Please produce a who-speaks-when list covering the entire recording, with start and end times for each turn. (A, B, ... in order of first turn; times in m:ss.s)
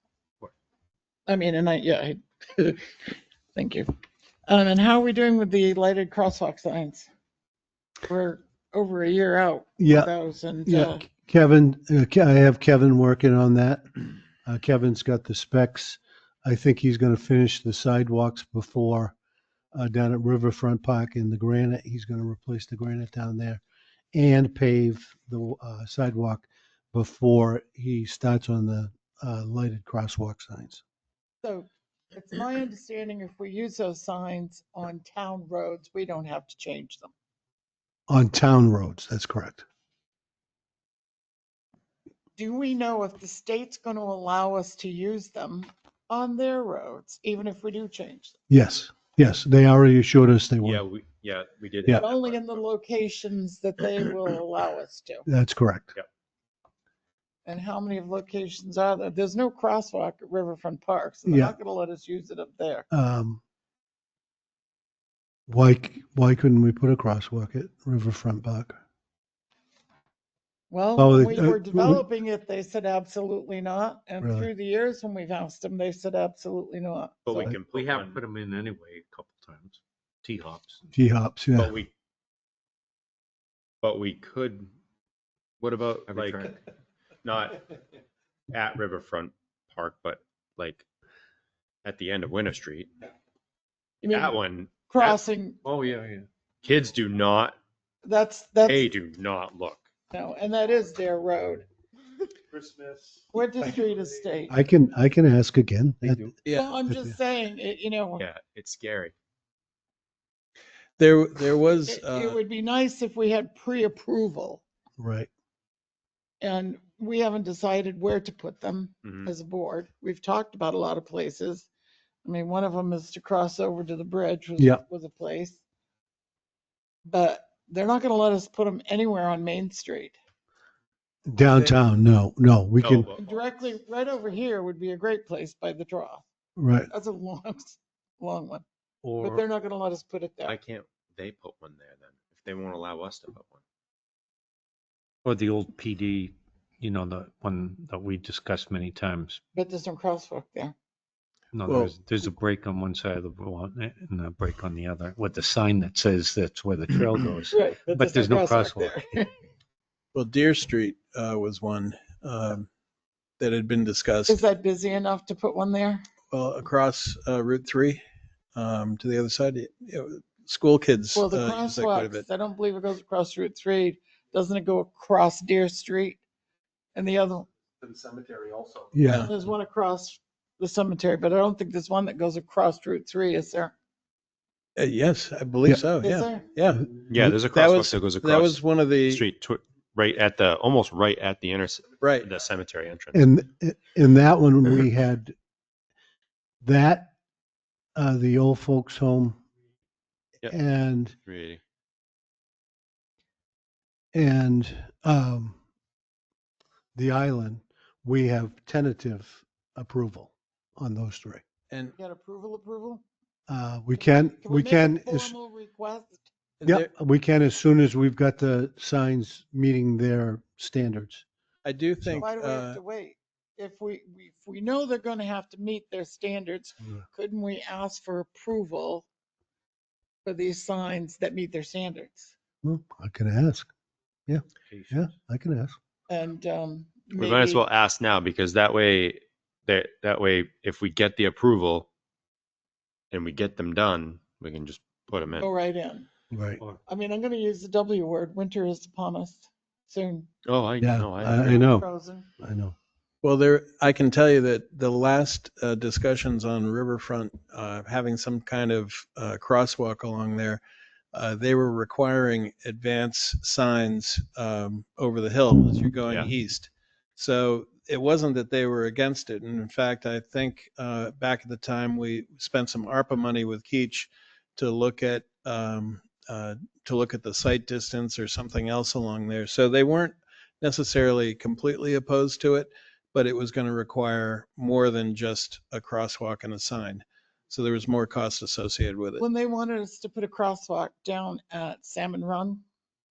0:01.3-0:02.9 A
0:03.5-0:03.9 A
0:04.5-0:07.1 A
0:08.1-0:11.0 A
0:09.8-0:10.1 B
0:10.7-0:19.2 B
0:19.7-0:23.6 B
0:24.1-0:30.8 B
0:31.4-0:37.1 A
0:38.1-0:39.6 B
0:42.4-0:48.4 A
0:48.5-0:50.8 B
0:50.6-0:52.4 C
0:52.0-0:55.3 A
0:55.3-0:55.9 B
0:57.4-1:02.9 A
1:01.3-1:01.6 B
1:02.9-1:03.4 B
1:05.5-1:08.8 B
1:10.7-1:17.5 A
1:11.0-1:12.0 B
1:14.2-1:14.5 B
1:17.2-1:18.2 C
1:17.4-1:21.0 D
1:20.9-1:21.8 B
1:21.6-1:21.9 C
1:23.8-1:24.7 C
1:25.6-1:26.5 C
1:26.1-1:26.6 D
1:27.2-1:27.6 C
1:28.5-1:30.8 C
1:31.8-1:32.9 C
1:34.0-1:34.4 A
1:34.1-1:35.2 C
1:34.9-1:35.6 A
1:35.6-1:36.3 D
1:36.6-1:37.6 C
1:38.0-1:38.9 A
1:38.6-1:39.8 C
1:40.1-1:41.6 A
1:43.3-1:44.6 A
1:44.5-1:46.2 B
1:46.0-1:46.3 D
1:46.4-1:46.7 E
1:46.5-1:48.2 A
1:46.9-1:47.2 B
1:48.2-1:49.1 C
1:51.0-1:52.4 E
1:51.9-1:54.6 A
1:55.0-1:55.3 B
1:56.4-2:01.7 A
1:59.0-1:59.3 C
2:02.2-2:05.6 A
2:07.1-2:10.2 A
2:11.3-2:13.1 B
2:12.8-2:13.4 C
2:13.2-2:16.2 A
2:16.6-2:16.9 B
2:16.9-2:18.6 A
2:19.0-2:19.4 D
2:19.2-2:20.6 A
2:20.5-2:23.6 C
2:25.2-2:29.4 D
2:29.6-2:30.7 A
2:31.5-2:39.0 D
2:31.6-2:32.0 E
2:37.5-2:39.3 A
2:40.1-2:42.7 E
2:43.4-2:44.4 E
2:44.3-2:46.0 A
2:46.3-2:48.0 E
2:48.6-2:52.2 E
2:51.2-2:56.2 A
2:56.9-2:57.5 A
2:58.9-2:59.3 B
2:59.2-3:03.7 A
3:04.8-3:09.3 E
3:06.0-3:06.5 A
3:07.1-3:13.3 C
3:12.0-3:12.3 E
3:13.1-3:15.4 B
3:16.6-3:17.1 B
3:18.0-3:19.4 B
3:20.5-3:21.2 B
3:21.2-3:21.6 C
3:24.1-3:25.6 B
3:27.0-3:31.4 B
3:32.0-3:33.0 A
3:33.5-3:35.4 B
3:34.4-3:36.3 A
3:36.6-3:36.9 E
3:36.6-3:41.2 B
3:41.6-3:42.8 E
3:42.2-3:49.1 A
3:50.2-3:52.4 A
3:52.6-3:53.7 B
3:54.3-3:55.8 B
3:54.7-3:55.1 D
3:56.1-3:57.6 A
3:57.2-4:01.9 C
4:03.1-4:05.5 C
4:05.4-4:06.1 A
4:06.3-4:06.6 B
4:06.9-4:10.3 A
4:10.4-4:11.7 C
4:10.8-4:11.9 B
4:11.3-4:12.3 A
4:12.4-4:12.8 B
4:13.2-4:20.6 E
4:21.1-4:49.2 E
4:49.2-4:52.6 A